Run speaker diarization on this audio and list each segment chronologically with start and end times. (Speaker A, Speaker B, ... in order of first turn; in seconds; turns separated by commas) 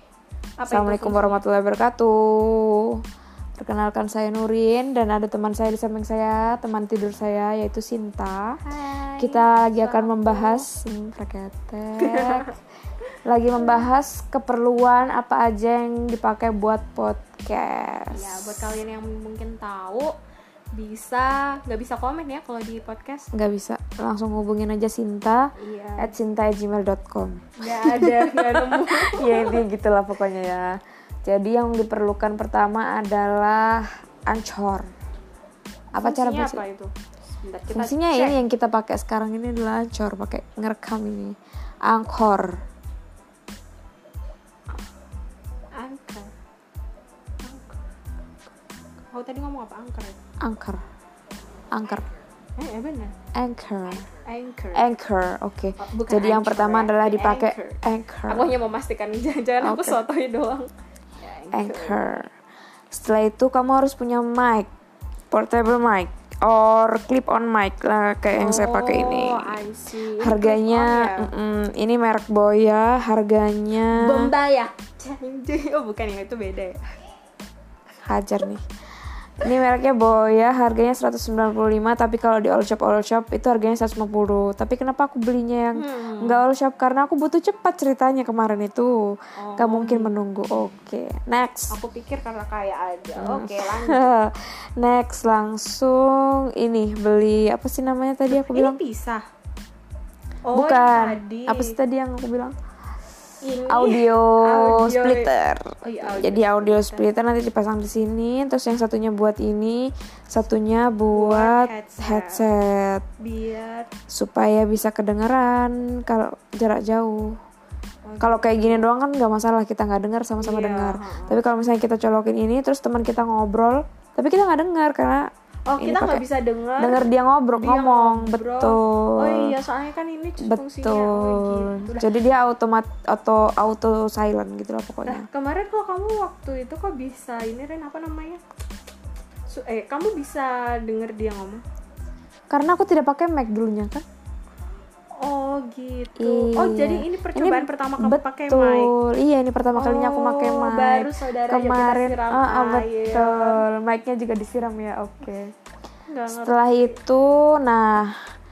Speaker A: 0.6-1.4, Speaker B: 0.7-3.0, Speaker B: 3.5-8.6, Speaker A: 8.6-10.7, Speaker B: 9.2-12.5, Speaker A: 12.0-12.5, Speaker B: 13.2-18.8, Speaker A: 13.6-13.8, Speaker A: 18.1-20.1, Speaker A: 20.7-23.3, Speaker B: 23.3-25.4, Speaker A: 25.6-26.1, Speaker B: 26.0-34.9, Speaker A: 27.6-29.6, Speaker B: 35.9-36.6, Speaker A: 36.0-38.4, Speaker B: 37.7-41.3, Speaker B: 41.9-42.5, Speaker A: 45.8-46.3, Speaker A: 47.4-47.8, Speaker A: 49.1-50.2, Speaker B: 50.4-50.8, Speaker B: 51.7-52.1, Speaker A: 52.6-53.1, Speaker B: 53.3-54.1, Speaker A: 54.2-54.9, Speaker B: 54.7-58.5, Speaker A: 55.8-62.0, Speaker B: 59.6-60.0, Speaker B: 61.5-62.3, Speaker B: 62.9-64.7, Speaker B: 65.3-69.6, Speaker A: 68.3-71.3, Speaker B: 70.2-74.3, Speaker A: 73.9-76.9, Speaker B: 78.0-78.6, Speaker B: 79.4-88.9, Speaker A: 85.8-86.4, Speaker A: 89.4-90.1, Speaker B: 89.6-91.8, Speaker A: 91.7-94.1, Speaker B: 93.2-98.8, Speaker A: 98.3-99.2, Speaker A: 100.5-101.7, Speaker B: 100.5-102.5, Speaker A: 103.4-107.1, Speaker B: 103.7-113.0, Speaker A: 111.1-112.4, Speaker A: 113.2-113.9, Speaker B: 114.1-117.4, Speaker A: 118.0-118.9, Speaker B: 118.2-126.2, Speaker A: 120.4-121.4, Speaker A: 125.7-132.1, Speaker B: 126.8-129.5, Speaker B: 130.4-135.2, Speaker A: 135.1-138.4, Speaker A: 139.5-141.6, Speaker B: 142.5-144.0, Speaker A: 145.2-148.9, Speaker B: 146.2-155.5, Speaker A: 149.7-153.6, Speaker A: 156.1-156.9, Speaker B: 156.3-158.1